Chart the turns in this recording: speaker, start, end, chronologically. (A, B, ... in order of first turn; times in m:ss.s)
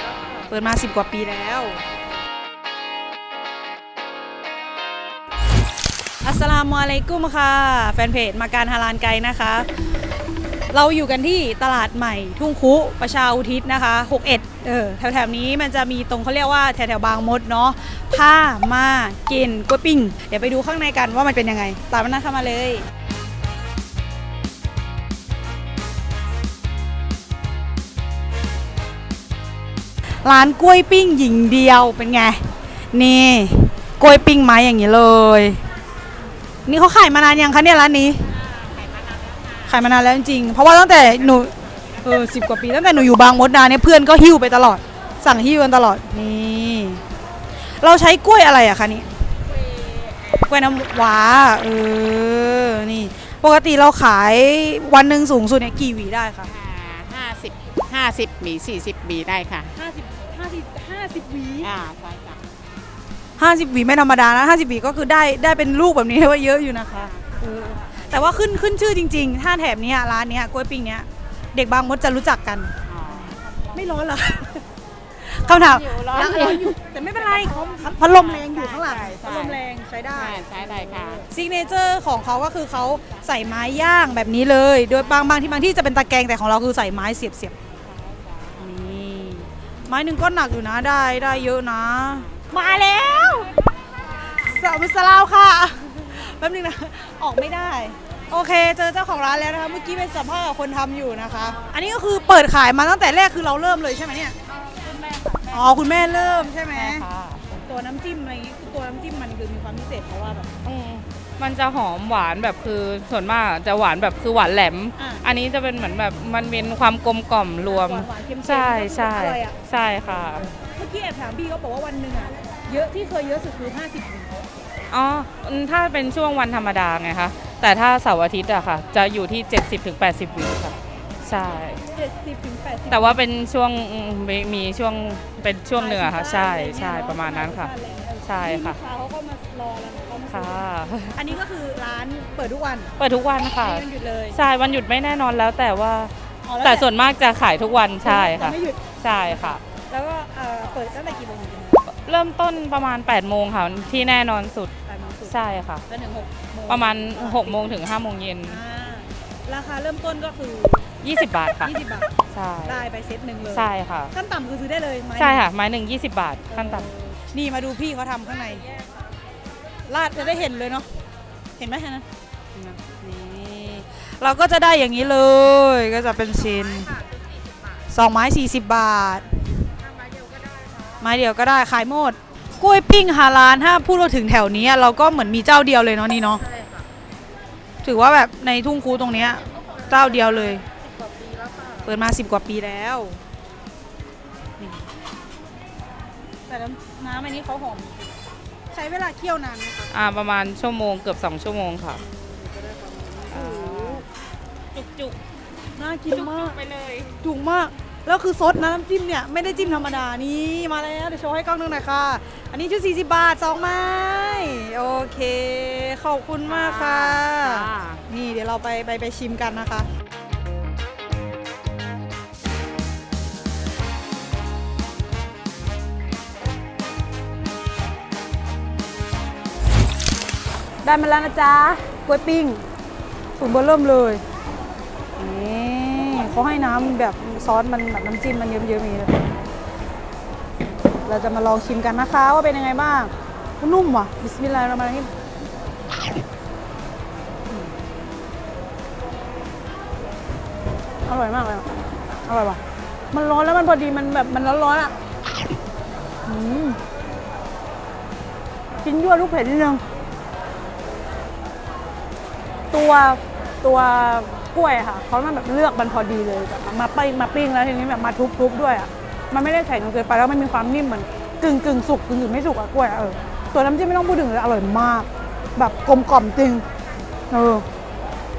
0:00.5-0:01.8 A
0:06.2-0:10.0 A
0:10.7-0:22.8 A
0:30.2-0:35.6 A
0:36.6-0:38.3 A
0:38.5-0:39.6 B
0:39.6-0:47.0 A
0:47.6-0:49.2 A
0:49.8-0:50.2 B
0:50.4-0:56.5 A
0:56.5-0:59.7 B
0:59.7-1:01.7 A
1:01.6-1:02.4 B
1:03.4-1:14.6 A
1:07.0-1:07.3 B
1:12.9-1:13.9 B
1:15.2-1:20.5 A
1:15.5-1:16.9 B
1:17.5-1:19.6 B
1:20.1-1:21.2 B
1:21.2-1:27.6 A
1:27.8-1:28.7 B
1:28.6-1:33.5 A
1:34.2-1:44.3 A
1:44.8-1:47.6 C
1:45.5-1:47.1 A
1:47.6-1:50.5 A
1:50.6-2:00.5 C
1:55.0-1:55.2 A
1:57.6-1:59.6 A
2:00.5-2:04.4 A
2:04.9-2:11.8 C
2:11.9-2:13.2 A
2:12.9-2:17.7 C
2:15.7-2:22.9 A
2:18.2-2:18.8 C
2:20.3-2:21.4 C
2:23.0-2:29.6 C
2:23.6-2:24.4 A
2:26.4-2:26.9 A
2:28.0-2:31.9 A
2:31.8-2:34.7 C
2:34.8-2:37.8 A
2:35.2-2:35.8 C
2:36.7-2:38.6 C
2:38.4-2:40.9 A
2:41.0-2:41.7 C
2:41.6-2:42.1 A
2:42.3-2:42.8 C
2:42.6-2:45.5 A
2:43.5-2:44.1 C
2:45.2-2:46.9 C
2:46.5-2:48.7 A
2:49.9-2:50.9 A
2:51.6-2:57.0 A
2:57.9-2:59.5 A
3:01.0-3:06.4 A
3:07.8-3:10.6 A
3:11.8-3:13.2 A
3:14.6-3:14.8 A
3:16.5-3:18.2 A
3:18.7-3:19.9 A
3:19.9-3:22.0 C
3:22.3-3:24.0 A
3:23.3-3:24.0 C
3:24.7-3:25.2 C
3:25.7-3:26.6 A
3:26.1-3:27.1 C
3:27.2-3:39.9 A
3:36.5-3:38.0 C
3:50.8-3:52.6 A
3:53.4-3:54.2 A
3:55.2-3:59.1 A
4:01.0-4:05.1 A
4:11.0-4:11.7 A
4:12.2-4:12.6 A
4:13.1-4:14.9 A
4:16.2-4:16.8 A
4:18.8-4:19.8 A
4:22.7-4:36.6 A
4:37.3-4:37.6 A